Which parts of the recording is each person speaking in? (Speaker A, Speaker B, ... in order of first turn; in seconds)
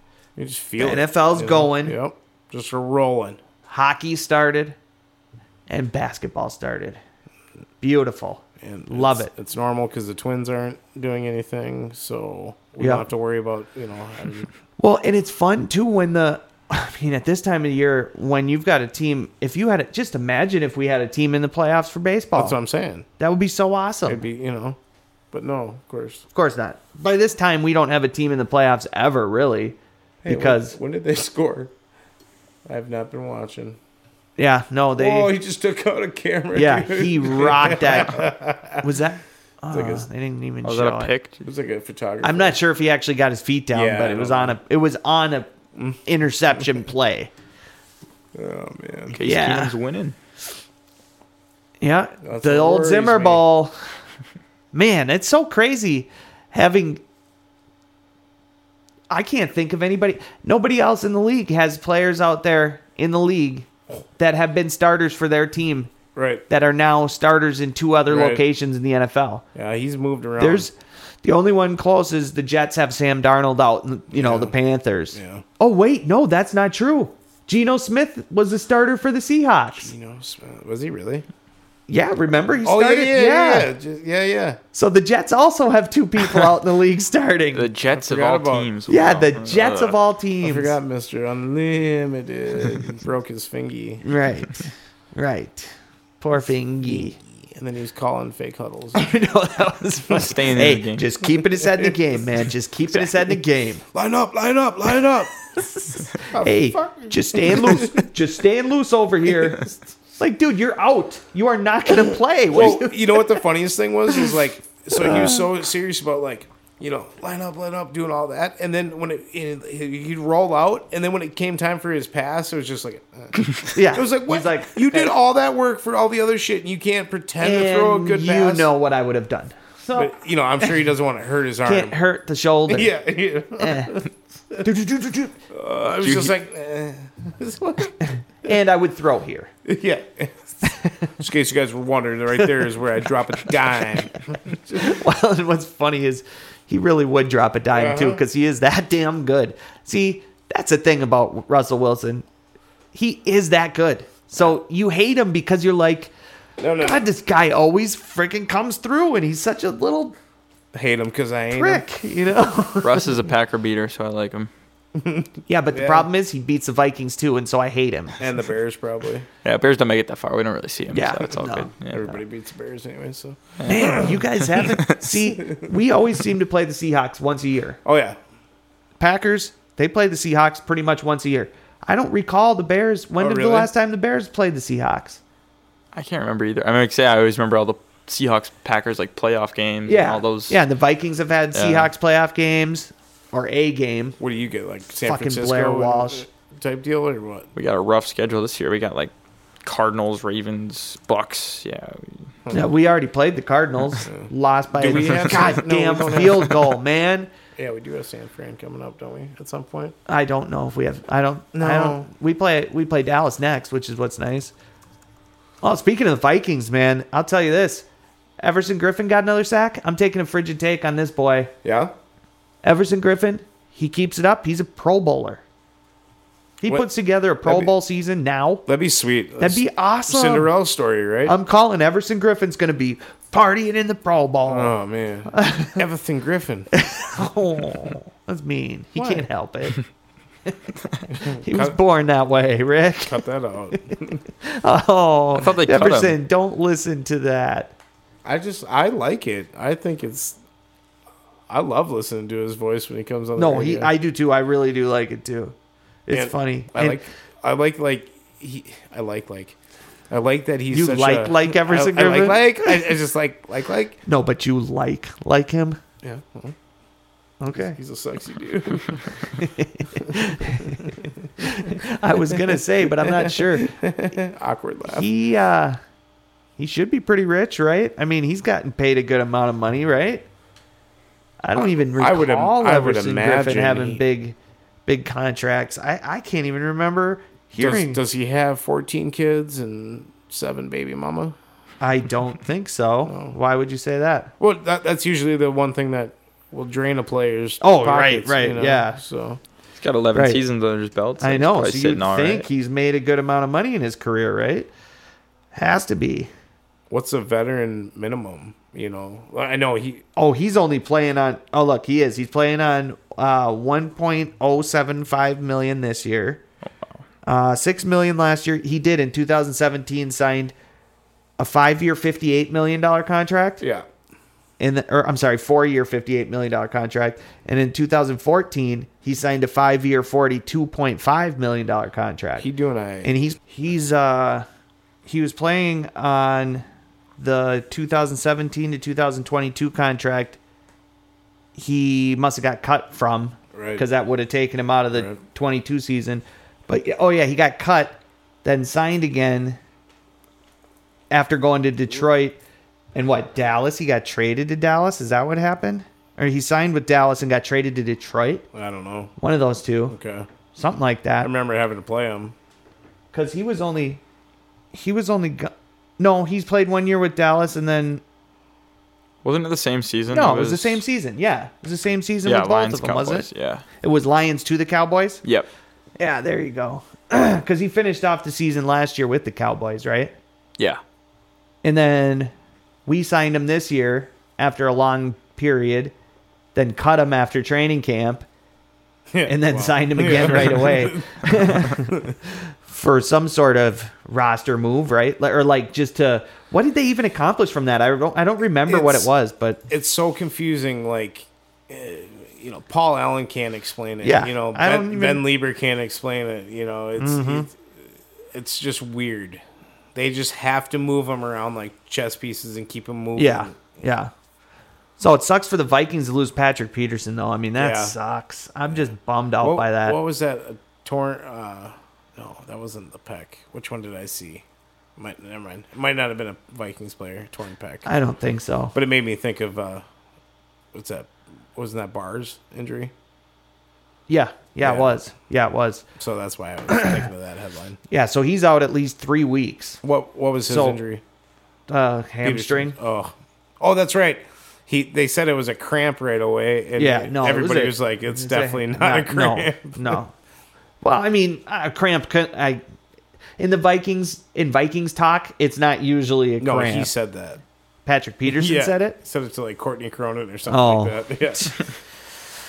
Speaker A: 0.3-3.4, 8.6-14.5, 22.3-23.1, 24.1-24.8, 25.3-26.2, 30.2-31.7, 32.7-33.8, 34.9-38.9, 39.7-40.0, 41.4-42.6, 43.7-44.6, 45.7-46.0, 48.3-49.2, 52.2-53.4, 66.1-66.4, 68.1-68.4, 69.5-70.7, 74.1-74.5, 75.1-75.4, 79.8-81.2, 82.6-84.6, 87.9-88.7, 90.4-94.0, 96.8-99.1, 101.5-102.0, 103.9-105.3, 106.2-108.0, 109.3-109.8, 112.5-128.7, 129.9-131.9, 132.7-134.7, 135.5-137.9, 139.6-140.4, 141.2-145.0, 147.7-148.2, 156.6-157.1, 160.7-162.0, 164.9-166.1, 168.2-169.3, 171.9-174.2, 177.8-178.2, 183.2-183.7, 194.2-197.5, 204.1-206.6, 207.6-209.9, 211.5-212.1, 221.6-221.9, 227.4-227.7, 228.7-231.3, 234.5-236.7, 238.9-239.3, 241.1-241.8, 243.1-244.2, 248.2-250.4, 251.5-253.9, 256.1-259.6, 260.1-264.0, 266.0-266.5, 267.6-269.1, 270.6-271.1, 272.5-275.1, 281.9-284.0, 287.6-291.4, 293.1-293.3, 294.4-299.4, 306.9-310.0, 323.6-323.9, 332.4-333.1, 343.5-343.8, 358.5-359.1, 359.9-360.3, 361.2-362.3, 389.1-392.1, 398.7-399.1, 399.7-407.6, 408.3-409.4, 409.9-413.6, 417.6-417.9, 419.4-424.4, 425.0-427.9, 428.7-429.8, 430.7-432.9, 434.6-434.9, 436.0-437.8, 439.8-441.0, 442.2-450.0, 456.4-457.4, 458.2-461.6
Speaker B: 0.8-2.0, 3.7-4.8, 5.7-7.0, 7.8-9.3, 12.8-13.1, 14.8-22.6, 23.2-24.2, 26.3-30.8, 34.4-35.3, 36.5-38.3, 38.8-41.1, 42.2-45.5, 46.0-47.3, 49.2-49.7, 51.8-53.8, 54.7-57.0, 59.1-65.9, 66.5-69.4, 70.4-70.7, 71.2-79.9, 81.9-83.7, 84.7-87.7, 88.9-90.7, 94.0-97.2, 98.9-103.8, 105.5-113.4, 115.0-115.5, 123.7-125.1, 127.4-130.1, 131.6-132.9, 133.6-134.0, 134.6-135.3, 138.0-139.5, 140.7-141.1, 144.7-152.2, 152.9-156.1, 156.8-160.1, 161.5-163.1, 165.5-168.2, 170.9-171.7, 173.7-177.8, 179.0-185.2, 189.9-194.2, 195.0-196.2, 202.5-207.3, 210.1-214.5, 215.6-217.8, 218.4-221.5, 222.6-225.4, 226.6-228.6, 229.4-230.5, 231.3-234.7, 235.3-235.8, 236.7-239.8, 240.4-240.7, 241.3-243.2, 244.4-247.7, 253.3-255.5, 256.1-257.0, 260.7-262.9, 264.1-265.8, 267.4-267.8, 269.4-273.8, 274.9-275.8, 276.6-280.2, 281.4-288.0, 291.8-294.3, 297.6-299.0, 300.1-300.4, 301.2-304.7, 305.5-306.3, 310.1-316.4, 317.2-320.5, 321.4-323.6, 324.6-332.4, 333.0-334.4, 335.1-336.6, 337.2-340.4, 341.5-349.6, 351.1-352.4, 352.9-358.4, 359.2-359.9, 360.5-361.3, 363.1-364.0, 364.7-368.0, 370.1-373.3, 373.8-375.2, 376.0-380.1, 381.6-382.3, 382.9-385.9, 386.5-388.2, 389.2-392.0, 392.6-399.6, 404.0-405.2, 407.0-407.5, 413.2-414.1, 415.0-420.0, 427.8-428.7, 434.1-435.8, 437.9-439.8, 440.5-440.8, 441.7-442.8, 446.8-450.1, 450.8-452.6, 453.4-456.9, 457.9-459.0, 460.5-461.5
Speaker C: 40.6-41.4, 49.1-50.1, 87.5-90.0, 100.1-101.0, 136.0-136.3, 162.8-164.5, 169.4-172.1, 173.6-175.1, 185.9-190.6, 191.5-191.9, 197.5-199.1, 199.6-202.3, 245.3-246.2, 299.8-302.5, 369.2-370.8, 372.2-373.6